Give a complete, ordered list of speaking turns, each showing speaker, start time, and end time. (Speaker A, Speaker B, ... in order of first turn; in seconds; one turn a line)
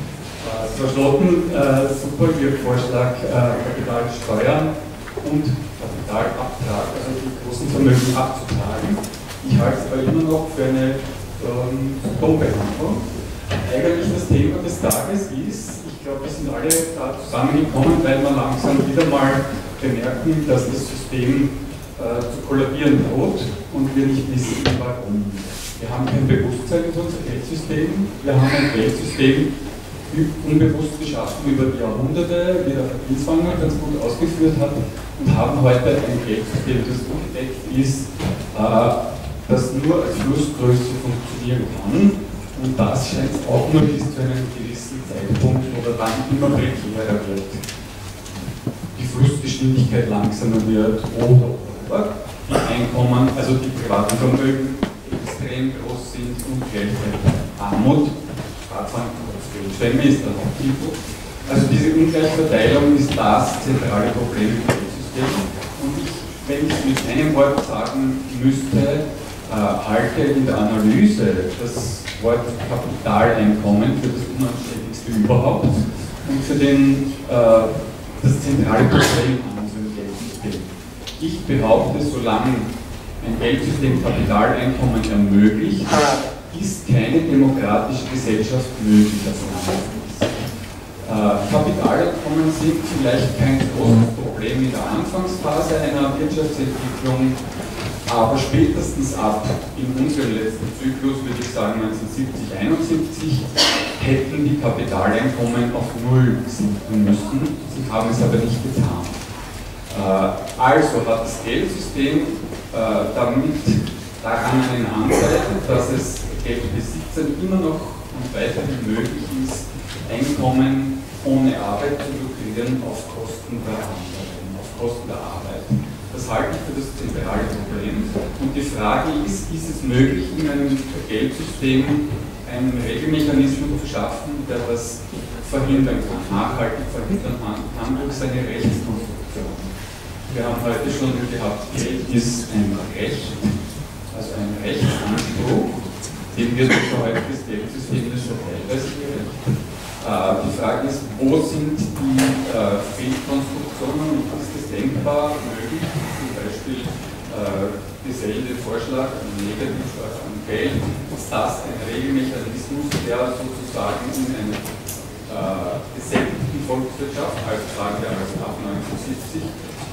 Speaker A: 0.4-13.0
Speaker A: 13.6-29.5
Speaker A: 30.1-47.6
Speaker A: 48.9-58.1
Speaker A: 58.7-82.7
Speaker A: 83.2-85.9
Speaker A: 86.5-90.4
Speaker A: 91.0-97.4
Speaker A: 98.0-109.2
Speaker A: 109.9-139.7
Speaker A: 140.3-143.5
Speaker A: 144.1-149.3
Speaker A: 150.0-164.6
Speaker A: 165.3-169.5